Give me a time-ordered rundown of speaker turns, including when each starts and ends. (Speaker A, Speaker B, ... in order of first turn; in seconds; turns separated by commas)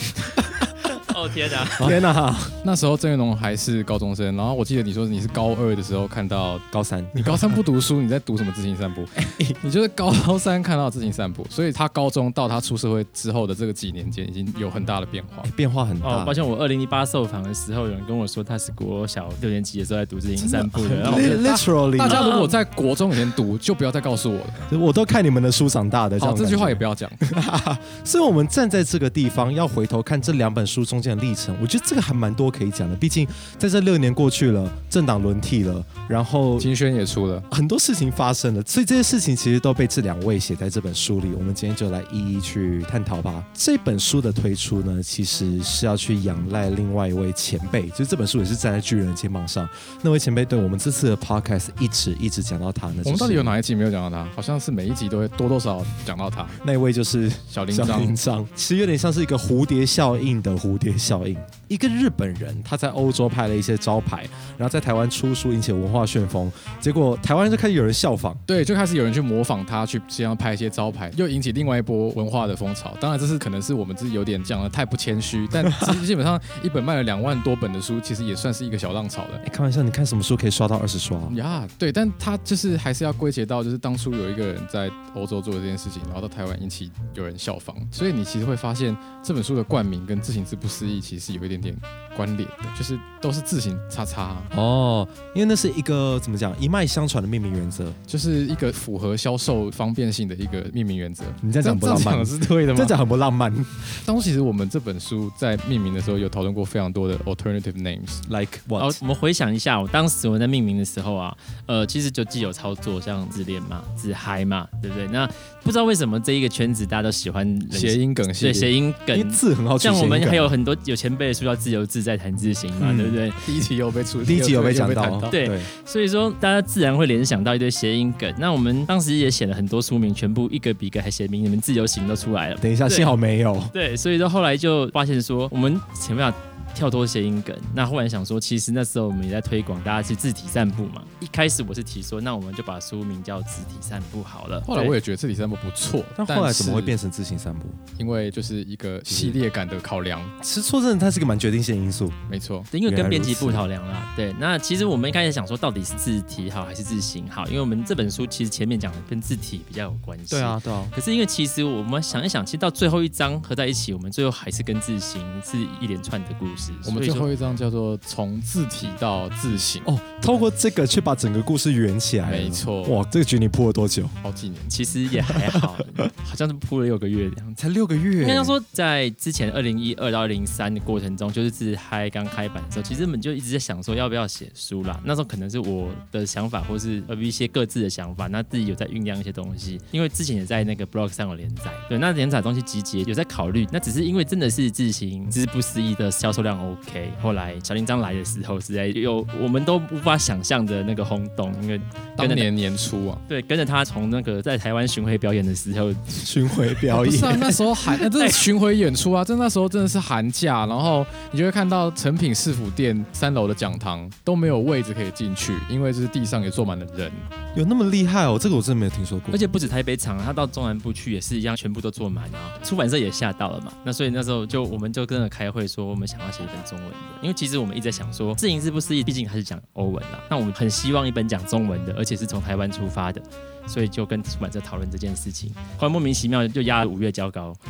Speaker A: 0.1-0.7, Speaker B: 0.9-2.0, Speaker A: 1.8-2.6, Speaker C: 2.6-15.5, Speaker A: 6.7-7.6, Speaker A: 9.2-9.6, Speaker A: 15.4-16.4, Speaker B: 16.0-21.4, Speaker A: 20.4-22.3, Speaker C: 21.1-24.7, Speaker B: 22.1-22.5, Speaker A: 24.7-36.7, Speaker C: 26.2-27.2, Speaker C: 36.6-37.5, Speaker A: 37.5-53.6, Speaker C: 53.0-56.6, Speaker A: 56.6-68.4, Speaker C: 57.5-58.2, Speaker C: 68.5-79.4, Speaker A: 79.4-81.4, Speaker C: 81.3-94.5, Speaker A: 94.5-98.0, Speaker C: 98.1-103.0, Speaker A: 101.4-104.0, Speaker C: 103.9-108.2, Speaker A: 108.3-109.0, Speaker B: 108.8-123.4, Speaker C: 117.7-118.7, Speaker A: 119.1-120.5, Speaker A: 122.8-123.2, Speaker C: 123.4-125.4, Speaker A: 124.2-125.7, Speaker B: 125.3-133.1, Speaker A: 132.6-133.7, Speaker B: 133.7-144.9, Speaker C: 144.7-147.0, Speaker A: 146.2-147.8, Speaker C: 147.9-150.3, Speaker A: 149.1-149.4, Speaker A: 150.4-152.2, Speaker C: 152.3-152.7, Speaker B: 152.7-167.3, Speaker A: 152.8-153.6, Speaker A: 160.3-160.9, Speaker C: 166.8-169.9, Speaker A: 169.8-174.2, Speaker C: 172.2-173.0, Speaker C: 174.2-174.7, Speaker B: 174.7-177.6, Speaker A: 175.3-175.7, Speaker A: 177.6-178.5, Speaker B: 178.2-202.5, Speaker C: 202.2-203.2, Speaker B: 203.3-206.3, Speaker A: 206.2-208.1, Speaker C: 206.9-217.3, Speaker A: 217.6-219.4, Speaker B: 219.3-237.6